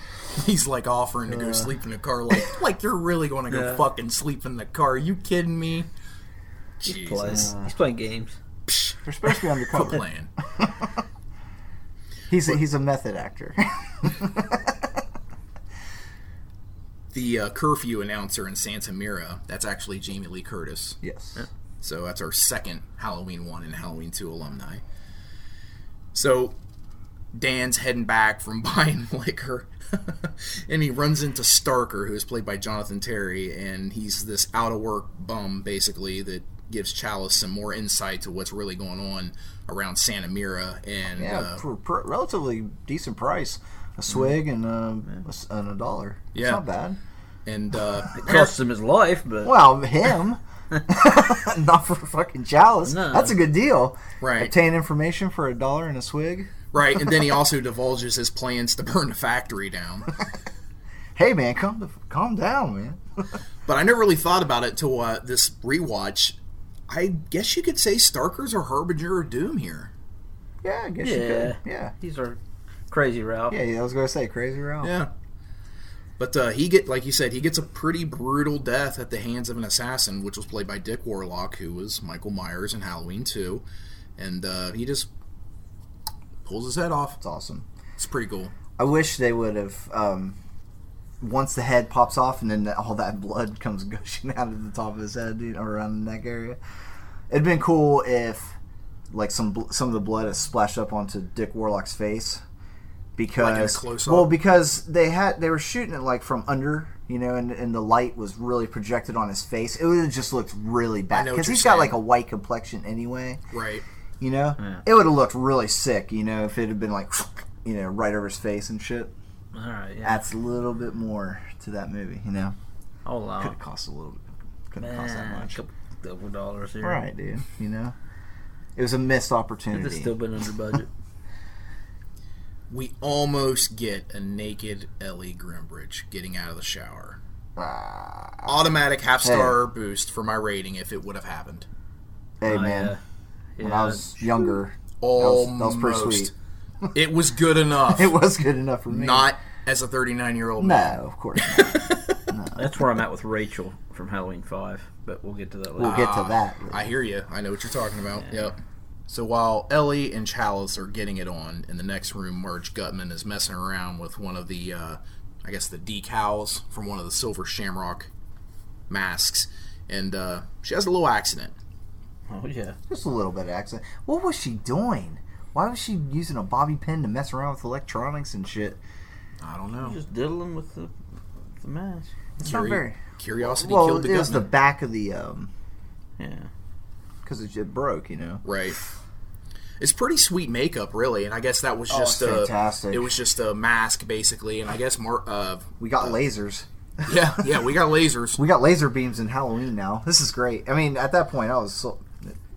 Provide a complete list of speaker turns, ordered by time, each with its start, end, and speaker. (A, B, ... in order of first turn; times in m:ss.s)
0:00.4-0:05.9 A
0:01.3-0:01.7 B
0:03.5-0:03.8 C
0:06.8-0:07.5 A
0:06.8-0:08.4 C
0:08.7-0:10.3 A
0:09.0-0:10.0 B
0:10.6-0:10.9 B
0:12.3-0:14.8 B
0:17.1-0:21.0 A
0:21.0-0:21.4 B
0:21.8-0:24.8 A
0:26.1-0:26.6 A
0:27.4-0:41.6 A
0:41.2-0:47.0 B
0:46.4-0:46.6 A
0:47.5-0:48.5 A
0:48.2-0:49.6 C
0:49.4-0:56.5 B
0:52.9-0:53.4 C
0:54.2-0:54.5 A
0:56.7-1:00.1 A
1:01.2-1:03.0 B
1:03.7-1:06.4 A
1:06.9-1:09.9 A
1:10.6-1:11.9 B
1:11.0-1:12.4 C
1:12.9-1:13.6 C
1:13.5-1:15.0 B
1:14.8-1:15.1 A
1:16.2-1:23.6 A
1:24.2-1:25.1 A
1:26.4-1:27.2 A
1:27.2-1:27.7 B
1:28.0-1:28.5 A
1:28.8-1:30.4 B
1:31.2-1:36.6 B
1:37.3-1:38.6 B
1:39.1-1:42.4 B
1:43.2-1:53.4 B
1:43.4-1:44.4 A
1:51.1-1:52.0 A
1:53.5-1:53.8 A
1:54.2-1:59.1 B
1:54.6-1:54.8 C
1:59.5-2:00.3 C
2:00.0-2:02.6 B
2:03.1-2:03.6 C
2:03.4-2:05.6 B
2:04.8-2:07.0 C
2:06.8-2:08.0 B
2:08.8-2:10.2 B
2:09.7-2:10.9 C
2:12.7-2:17.2 A
2:17.6-2:18.7 B
2:18.5-2:21.7 A
2:19.2-2:19.6 B
2:22.4-2:23.0 B
2:22.5-2:23.0 C
2:23.6-2:24.2 C
2:23.6-2:26.3 B
2:25.0-2:26.3 A
2:26.9-2:28.2 A
2:27.9-2:29.3 B
2:28.9-2:32.2 A
2:30.6-2:32.7 B
2:32.6-2:36.0 C
2:35.8-2:36.9 B
2:35.8-2:38.6 A
2:39.1-2:48.1 A
2:48.9-2:51.5 A
2:52.3-2:52.8 C
2:52.9-2:58.8 B
2:59.4-3:00.0 A
2:59.8-3:00.9 C
3:01.6-3:02.1 C
3:02.4-3:05.5 B
3:02.4-3:04.5 A
3:06.2-3:06.5 C
3:07.2-3:08.4 B
3:08.4-3:08.8 A
3:09.8-3:16.2 A
3:11.9-3:13.1 B
3:15.8-3:17.5 B
3:17.1-3:18.4 A
3:18.4-3:22.4 B